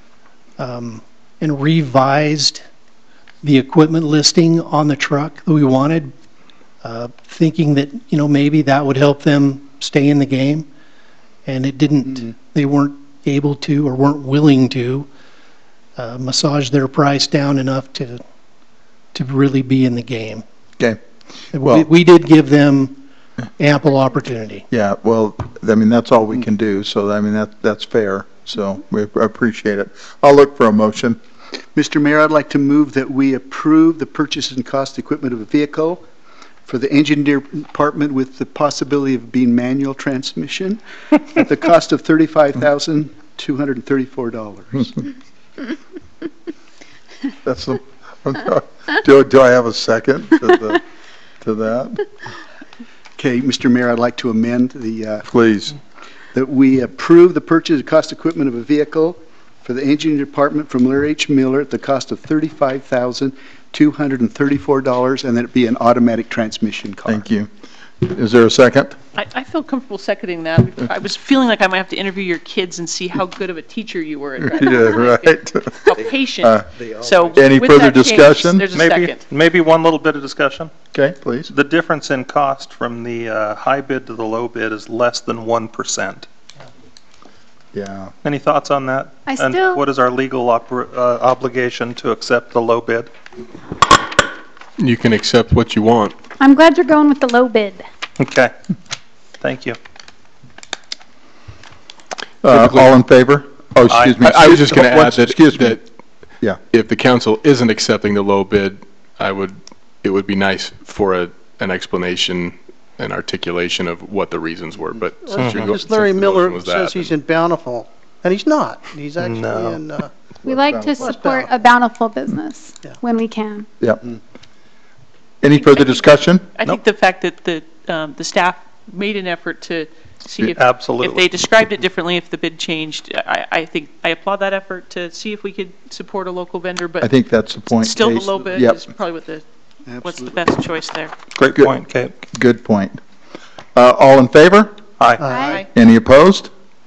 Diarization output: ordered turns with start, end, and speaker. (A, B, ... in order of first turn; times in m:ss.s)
0:00.6-0:02.6 A
0:03.4-0:06.1 A
0:06.8-0:10.7 A
0:11.4-0:15.1 A
0:16.0-0:18.2 A
0:19.1-0:20.4 A
0:21.5-0:23.0 A
0:23.6-0:24.6 A
0:24.7-0:31.2 B
0:31.8-0:36.0 C
0:36.7-0:45.0 C
0:47.4-0:50.8 B
0:51.4-0:52.1 B
0:53.2-0:55.3 C
0:55.3-0:55.8 B
0:56.3-1:07.2 C
1:07.1-1:07.5 B
1:08.0-1:09.0 B
1:09.2-1:19.3 D
1:14.4-1:15.8 B
1:16.4-1:16.6 B
1:17.3-1:18.6 B
1:18.7-1:20.7 E
1:20.9-1:21.5 B
1:21.5-1:26.3 E
1:27.7-1:28.1 B
1:28.2-1:33.1 E
1:29.2-1:29.8 F
1:34.8-1:36.2 G
1:36.4-1:37.9 F
1:38.2-1:38.5 E
1:39.4-1:39.8 E
1:42.4-1:45.8 B
1:42.5-1:43.0 G
1:44.1-1:45.8 G
1:46.7-1:57.2 G
1:55.2-2:00.1 H
1:59.2-1:59.7 E
2:00.4-2:01.1 B
2:00.5-2:03.7 F
2:01.0-2:01.7 H
2:05.4-2:06.5 B
2:06.6-2:17.2 D
2:10.6-2:11.3 E
2:17.0-2:18.8 B
2:17.7-2:19.4 D
2:19.9-2:20.4 C
2:20.0-2:21.1 D
2:21.4-2:23.0 B
2:21.5-2:22.1 E
2:23.8-2:24.8 B
2:25.0-2:25.3 E
2:25.3-2:25.7 D
2:25.3-2:25.7 F
2:25.7-2:26.5 B